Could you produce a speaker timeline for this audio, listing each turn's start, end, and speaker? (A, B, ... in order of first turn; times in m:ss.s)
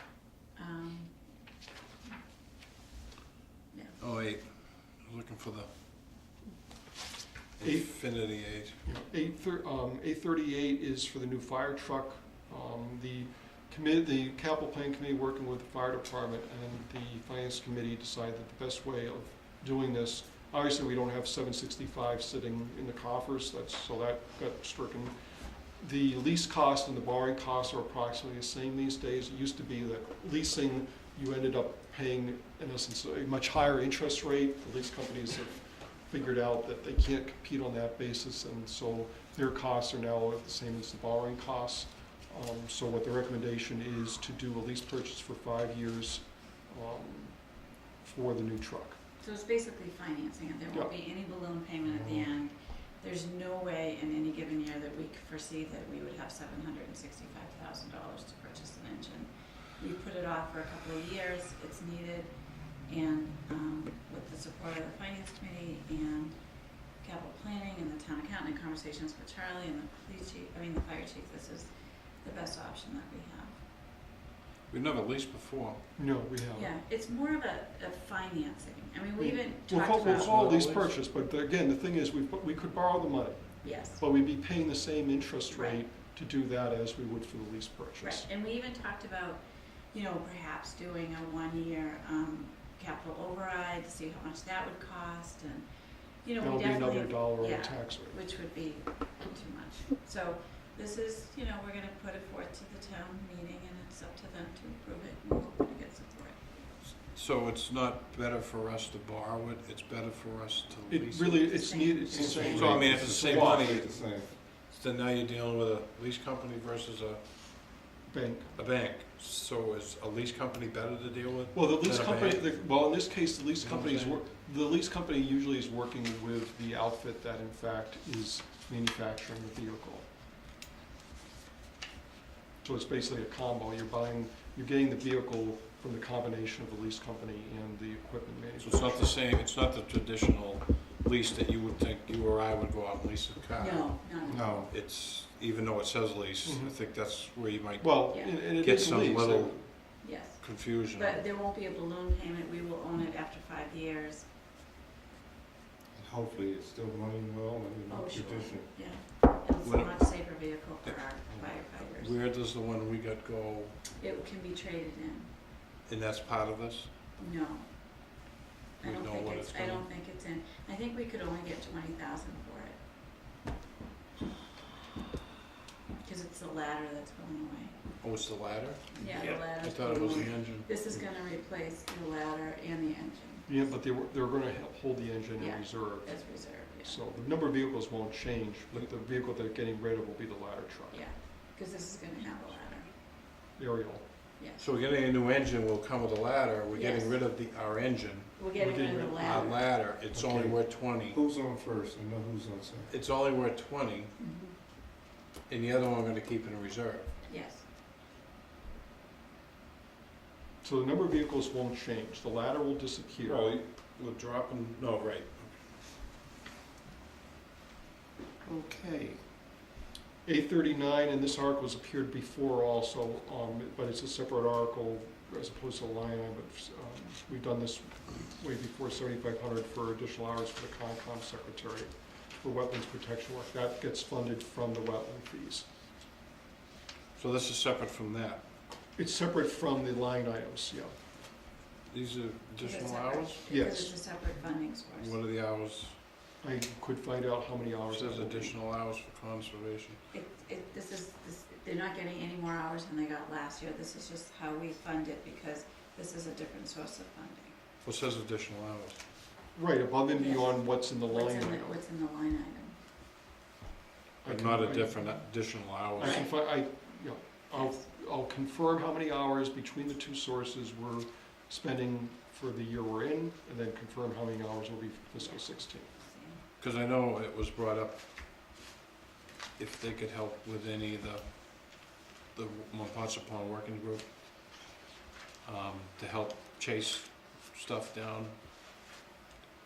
0:00.5-0:01.1 A
0:03.7-0:04.0 A
0:04.0-0:05.7 B
0:07.6-0:08.8 B
0:07.6-0:08.2 C
0:08.8-0:25.1 C
0:25.7-0:47.5 C
0:48.0-0:49.0 C
0:49.2-1:02.3 A
0:51.9-0:52.2 D
1:02.8-1:06.3 A
1:07.0-1:13.6 A
1:14.7-1:15.8 B
1:16.0-1:16.7 C
1:16.5-1:20.3 A
1:19.2-1:28.2 C
1:20.0-1:20.9 B
1:23.6-1:24.0 A
1:25.5-1:25.8 A
1:28.0-1:35.6 A
1:36.2-1:46.9 A
1:36.4-1:38.2 C
1:47.1-1:51.5 B
1:50.9-1:53.8 C
1:51.4-1:52.8 A
1:52.1-1:54.3 D
1:52.4-1:57.9 B
1:58.1-1:58.5 C
1:58.5-2:02.5 B
2:01.5-2:10.1 C
2:03.6-2:04.2 B
2:12.6-2:19.1 C
2:18.6-2:24.1 B
2:23.6-2:24.6 A
2:24.3-2:24.7 D
2:24.7-2:31.2 B
2:26.4-2:26.7 C
2:27.8-2:29.6 C
2:30.0-2:34.2 A
2:35.9-2:38.7 D
2:37.9-2:42.1 A
2:39.6-2:41.0 B
2:41.7-2:43.8 B
2:44.0-2:45.3 A
2:45.9-2:46.9 B
2:47.2-2:47.7 A
2:48.8-2:52.8 A
2:48.8-2:49.8 B
2:56.0-2:57.7 A
2:58.0-3:00.7 B
2:59.0-3:03.5 A
3:03.5-3:11.0 C
3:05.4-3:07.0 A
3:10.9-3:12.9 A
3:13.6-3:14.0 C
3:14.4-3:14.6 A
3:14.6-3:18.4 B
3:16.7-3:17.2 A
3:18.4-3:19.6 A
3:18.6-3:19.5 C
3:19.2-3:21.2 B
3:20.1-3:22.9 D
3:22.9-3:24.1 B
3:24.2-3:24.6 A
3:25.5-3:27.1 B
3:27.3-3:27.6 A
3:30.6-3:33.4 C
3:33.2-3:35.5 B
3:38.4-3:39.2 D
3:40.2-3:55.6 C
3:57.2-3:58.4 B
3:59.0-4:00.9 C
4:01.9-4:03.4 B
4:02.6-4:05.2 A
4:03.5-4:04.0 C
4:04.9-4:06.0 B
4:06.4-4:08.5 C
4:07.9-4:10.0 B
4:10.1-4:17.5 A
4:17.8-4:19.0 B
4:19.5-4:21.7 C
4:20.2-4:22.7 A
4:24.2-4:25.2 C
4:24.2-4:26.2 B
4:25.9-4:35.9 C
4:26.0-4:26.4 A
4:27.5-4:27.8 A
4:35.2-4:36.4 A
4:36.6-4:38.0 B
4:39.6-4:44.6 B
4:45.4-4:48.3 B